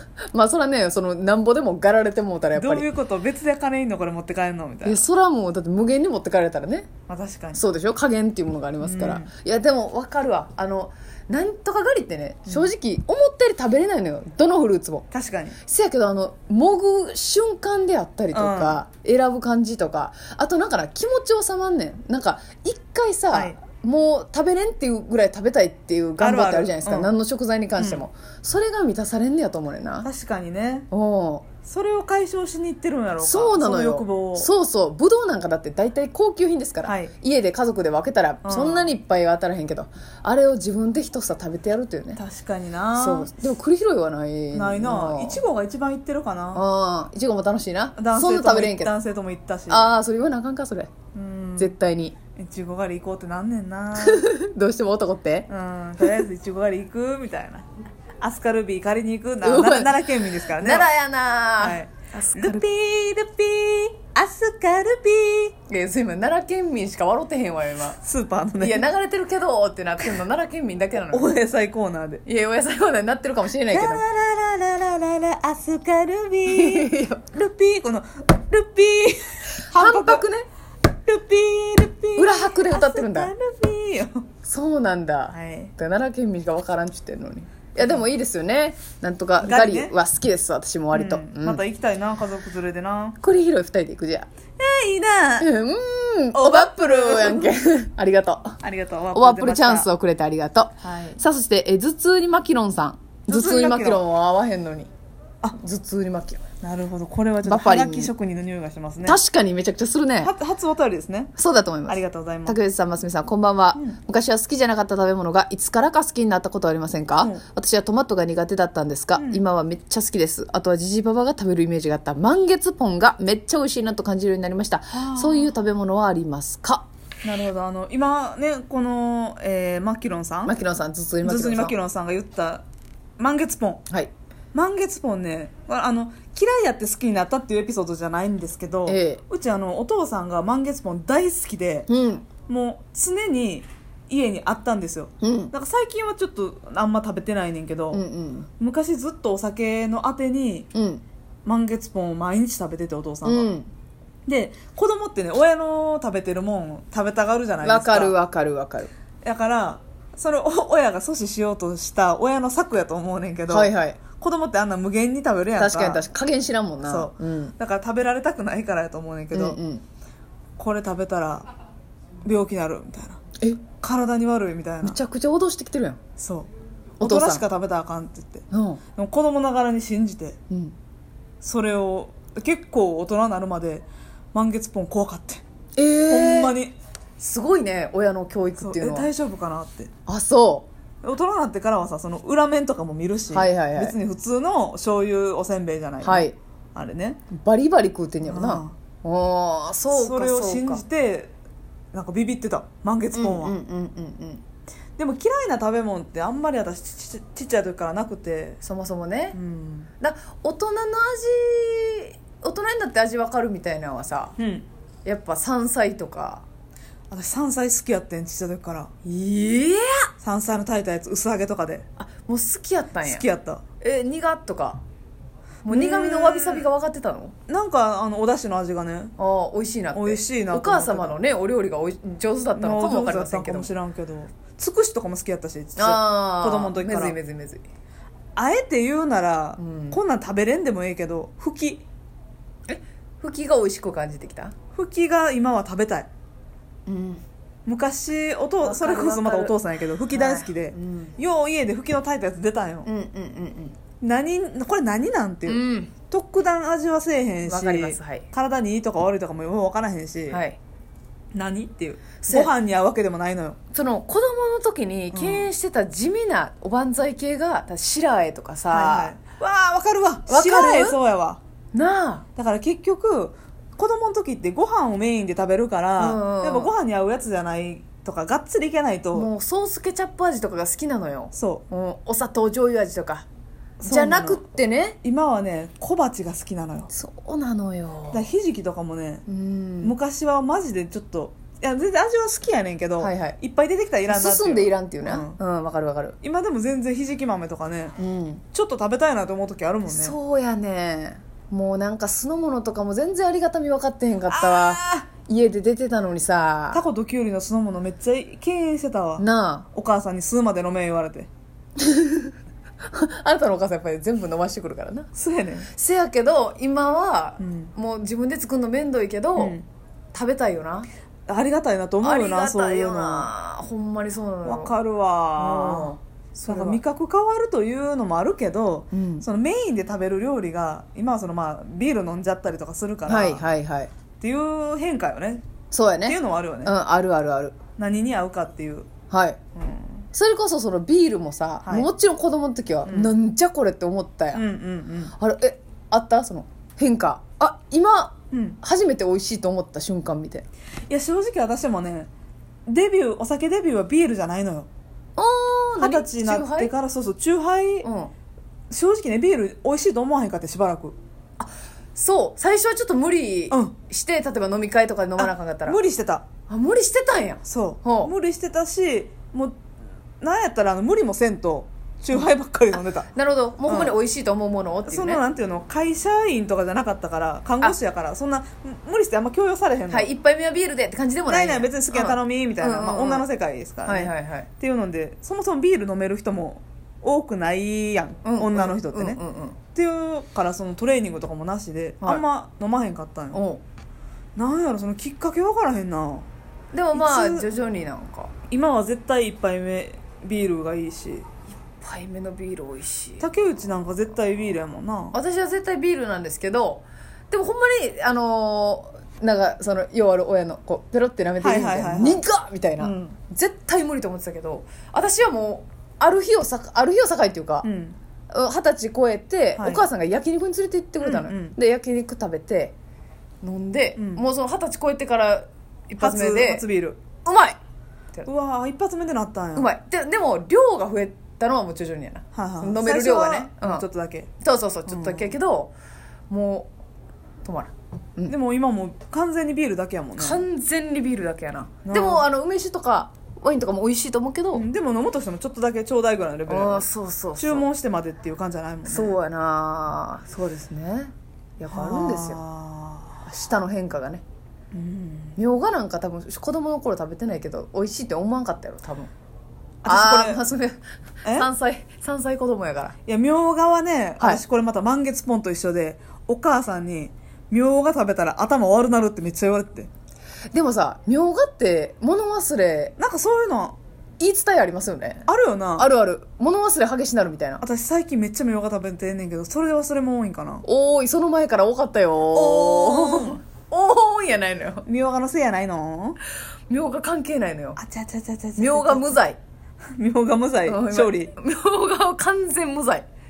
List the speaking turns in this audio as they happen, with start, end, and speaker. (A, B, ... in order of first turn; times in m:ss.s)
0:00.3-0:02.9 A
0:02.5-0:05.0 B
0:04.8-0:06.9 A
0:07.1-0:07.6 B
0:07.5-0:15.0 A
0:08.8-0:09.3 B
0:15.1-0:15.6 B
0:15.6-0:30.1 A
0:18.3-0:18.8 B
0:23.3-0:23.6 B
0:26.2-0:27.2 B
0:27.8-0:28.0 B
0:30.0-0:30.9 B
0:30.9-0:31.4 A
0:31.6-0:34.5 B
0:33.2-0:42.2 A
0:36.8-0:37.1 B
0:38.4-0:38.9 B
0:42.2-0:43.3 B
0:42.9-0:45.4 A
0:44.5-0:46.6 B
0:46.5-0:48.9 A
0:48.0-0:49.9 B
0:49.7-0:50.9 A
0:51.1-0:51.7 B
0:51.6-0:52.1 A
0:52.4-0:54.3 B
0:54.0-0:55.5 A
0:55.5-0:57.7 B
0:58.2-1:00.9 B
0:59.4-1:03.2 A
1:01.6-1:05.5 B
1:05.7-1:08.0 A
1:08.0-1:08.9 B
1:08.6-1:11.3 A
1:10.9-1:12.2 B
1:12.2-1:14.0 A
1:13.7-1:20.2 B
1:16.5-1:17.2 A
1:19.5-1:20.4 A
1:21.0-1:24.3 B
1:22.2-1:23.3 A
1:24.4-1:31.6 A
1:25.3-1:25.7 B
1:29.4-1:29.9 B
1:30.9-1:33.2 B
1:33.2-1:34.3 A
1:34.6-1:35.5 B
1:35.4-1:38.6 A
1:36.3-1:37.5 B
1:38.6-1:39.9 B
1:39.1-1:44.9 A
1:40.8-1:41.2 B
1:43.3-1:44.0 B
1:45.5-1:46.4 A
1:46.6-1:49.2 B
1:47.4-1:48.1 A
1:49.0-1:50.3 A
1:50.2-1:51.3 B
1:51.4-2:06.9 A
1:51.9-1:52.6 B
1:59.2-1:59.4 B
2:04.9-2:05.5 B
2:07.2-2:10.5 B
2:10.4-2:11.7 A
2:11.2-2:12.6 B
2:13.2-2:13.8 B
2:14.5-2:21.9 B
2:18.9-2:19.2 A
2:21.9-2:22.2 A
2:22.5-2:28.0 B
2:25.2-2:25.5 A
2:27.9-2:28.5 A
2:28.6-2:30.7 B
2:30.7-2:31.0 A
2:31.4-2:33.5 B
2:33.2-2:33.7 A
2:34.3-2:38.2 B
2:37.6-2:38.9 A
2:39.2-2:46.0 B
2:43.5-2:44.0 A
2:45.6-2:47.5 A
2:46.8-2:49.6 B
2:49.3-2:49.8 A
2:50.6-2:51.5 B
2:52.2-2:53.2 B
2:53.8-2:55.0 B
2:54.8-2:56.0 A
2:56.2-2:56.5 B
2:57.0-2:57.4 A
2:57.0-2:58.4 B
2:58.5-2:58.8 A
2:59.0-3:00.4 B
3:00.5-3:00.7 A
3:01.4-3:05.4 B
3:05.8-3:06.6 A
3:06.1-3:06.7 B
3:07.2-3:09.1 A
3:08.6-3:09.9 B
3:10.1-3:10.7 A
3:11.0-3:17.2 B
3:13.3-3:13.9 A
3:16.0-3:16.3 A
3:17.3-3:20.8 A
3:18.2-3:18.7 B
3:19.9-3:21.3 B
3:21.9-3:23.6 B
3:23.1-3:24.4 A
3:25.0-3:28.6 B
3:28.6-3:29.4 A
3:29.3-3:29.9 B
3:30.0-3:34.4 A
3:34.4-3:34.7 B
3:35.0-3:36.4 A
3:37.1-3:38.9 B
3:39.0-3:40.1 A
3:40.2-3:41.8 B
3:42.0-3:43.2 A
3:43.0-3:43.6 B
3:43.8-3:44.8 A
3:45.6-3:47.3 A
3:45.7-3:46.7 B
3:47.5-3:49.1 B
3:49.2-3:53.7 A
3:49.9-3:51.2 B
3:52.5-3:57.2 B
3:55.8-3:57.6 A
3:58.4-4:01.8 B
3:59.6-4:00.0 A
4:02.7-4:04.5 A
4:04.7-4:06.1 B
4:06.9-4:07.2 A
4:07.6-4:12.9 B
4:08.6-4:09.5 A
4:10.1-4:11.1 A
4:12.8-4:13.8 A
4:14.0-4:20.4 B
4:15.4-4:15.9 A
4:17.4-4:18.3 A
4:20.3-4:20.6 A
4:21.3-4:23.6 B
4:22.2-4:22.5 A
4:23.7-4:29.1 A
4:25.1-4:25.5 B
4:28.7-4:31.4 B
4:30.3-4:31.0 A
4:31.7-4:32.2 A
4:32.4-4:39.3 B
4:36.0-4:36.7 A
4:39.1-4:43.2 A
4:41.3-4:41.6 B
4:43.8-4:44.4 B
4:43.8-4:45.0 A
4:45.0-4:46.9 B
4:46.9-4:48.3 A
4:48.1-4:49.2 B
4:49.3-4:49.9 A
4:49.8-4:55.4 B
4:53.0-4:53.4 A
4:54.1-4:56.2 A
4:56.2-4:57.9 B
4:58.0-4:58.4 A
4:58.5-5:00.2 B
4:59.9-5:06.8 A
5:04.3-5:05.1 B
5:06.7-5:11.3 B
5:09.2-5:09.7 A
5:11.8-5:12.3 A
5:12.8-5:15.1 A
5:15.1-5:15.7 B
5:15.7-5:19.6 A
5:17.4-5:17.7 B
5:19.4-5:19.6 B
5:20.1-5:20.9 A
5:21.3-5:23.3 B
5:22.0-5:24.7 A
5:24.4-5:25.9 B
5:25.4-5:26.8 A
5:26.4-5:33.4 B
5:28.9-5:29.2 A
5:33.1-5:33.9 A
5:34.2-5:35.4 B
5:35.7-5:37.6 A
5:36.0-5:36.7 B
5:37.8-5:38.9 B
5:39.1-5:39.4 A
5:39.6-5:40.0 B
5:40.1-5:44.4 A
5:41.6-5:41.9 B
5:42.8-5:43.1 B
5:44.3-5:45.1 B
5:45.1-5:50.4 A
5:48.3-5:48.6 B
5:50.9-5:52.1 B
5:52.7-5:54.7 B
5:55.2-5:56.7 A
5:55.8-5:57.8 B
5:57.8-5:58.1 A
5:58.7-6:01.0 B
6:01.4-6:05.8 A
6:05.2-6:06.2 B
6:06.5-6:08.1 A
6:07.4-6:09.6 B
6:10.2-6:13.1 B
6:13.1-6:15.2 A
6:13.7-6:14.0 B
6:14.9-6:20.1 B
6:19.9-6:23.2 A
6:21.3-6:29.2 B
6:23.8-6:24.5 A
6:28.2-6:29.6 A
6:29.7-6:33.4 B
6:33.3-6:33.6 A
6:34.4-6:36.2 B
6:36.7-6:38.3 A
6:36.9-6:37.4 B
6:38.5-6:41.2 B
6:41.8-6:43.3 A
6:43.2-6:45.2 B
6:45.1-6:57.7 A
6:51.4-6:52.2 B
6:52.8-6:53.1 B
6:57.6-6:58.0 B
6:58.3-7:02.7 A
6:59.6-6:59.8 B
7:01.0-7:01.5 B
7:03.4-7:06.6 A
7:04.0-7:04.2 B
7:06.0-7:07.0 B
7:07.2-7:07.6 A
7:08.2-7:09.7 B
7:09.6-7:13.8 A
7:12.3-7:14.3 B
7:14.4-7:15.7 A
7:14.9-7:15.3 B
7:16.3-7:16.7 A
7:17.4-7:18.3 A
7:18.3-7:20.4 B
7:20.2-7:24.6 A
7:21.8-7:22.2 B
7:24.5-7:29.2 B
7:26.5-7:27.6 A
7:28.9-7:32.4 A
7:31.7-7:33.2 B
7:33.2-7:34.2 A
7:34.7-7:35.4 B
7:35.4-7:39.1 A
7:39.8-7:40.4 B
7:39.8-7:43.0 A
7:41.2-7:41.5 B
7:43.0-7:49.9 B
7:50.5-7:53.0 A
7:53.0-7:53.8 B
7:54.2-7:57.6 A
7:55.3-7:55.9 B
7:57.6-8:00.6 B
8:00.6-8:04.9 A
8:02.3-8:03.4 B
8:04.8-8:06.2 B
8:06.7-8:07.8 A
8:07.8-8:09.2 B
8:08.6-8:09.4 A
8:10.0-8:11.3 B
8:10.7-8:13.1 A